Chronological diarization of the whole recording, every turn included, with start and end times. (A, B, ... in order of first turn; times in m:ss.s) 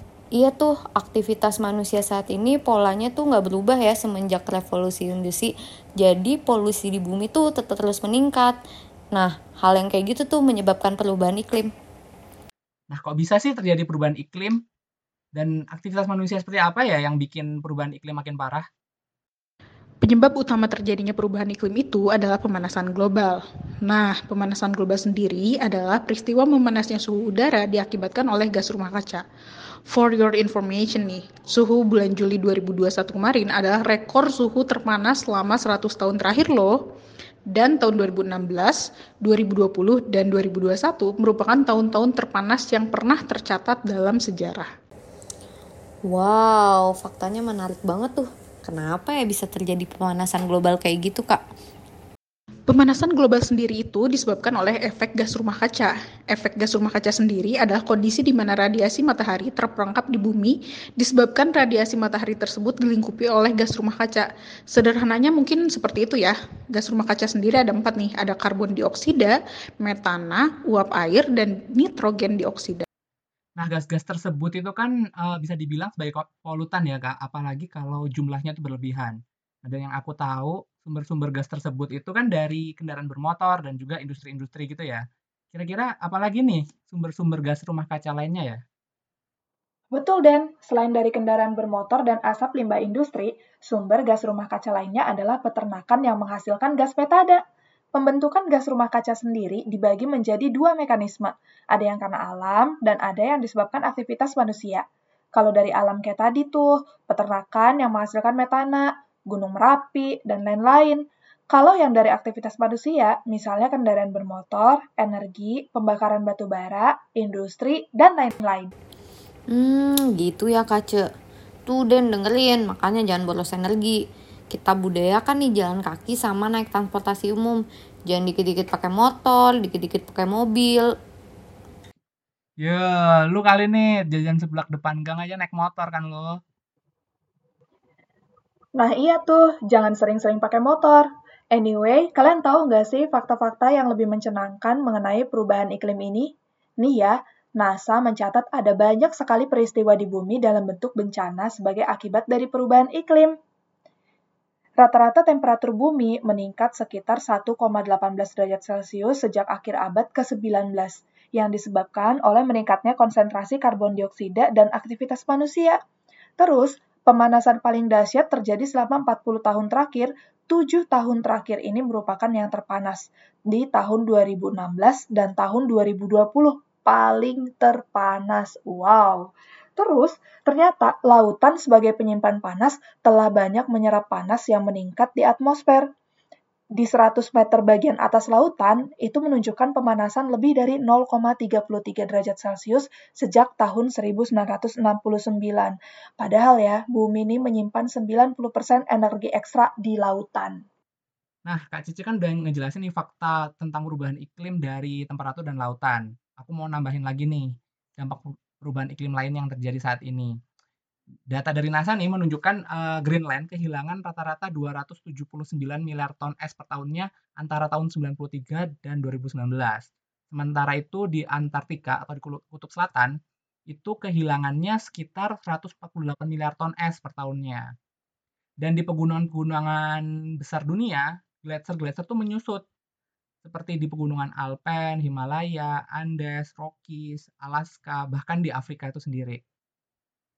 0:00.4-0:08.6 A
0:09.1-0:11.7 A
0:12.9-0:14.6 B
0:15.4-0:18.6 B
0:20.0-0:29.2 C
0:29.9-0:36.8 C
0:37.5-0:44.7 C
0:46.1-0:51.4 A
0:52.7-1:12.9 C
1:13.6-1:28.6 B
1:29.9-1:37.4 D
1:38.0-1:58.7 D
1:59.5-2:01.1 A
2:01.7-2:04.0 A
2:04.5-2:10.9 A
2:12.6-2:16.4 B
2:18.8-2:33.4 D
2:34.8-2:45.8 D
2:46.4-3:05.9 D
3:06.8-3:20.6 D
3:21.5-3:30.3 B
3:31.3-3:43.1 B
3:43.7-3:47.7 B
3:48.6-3:52.6 B
3:53.4-3:59.4 B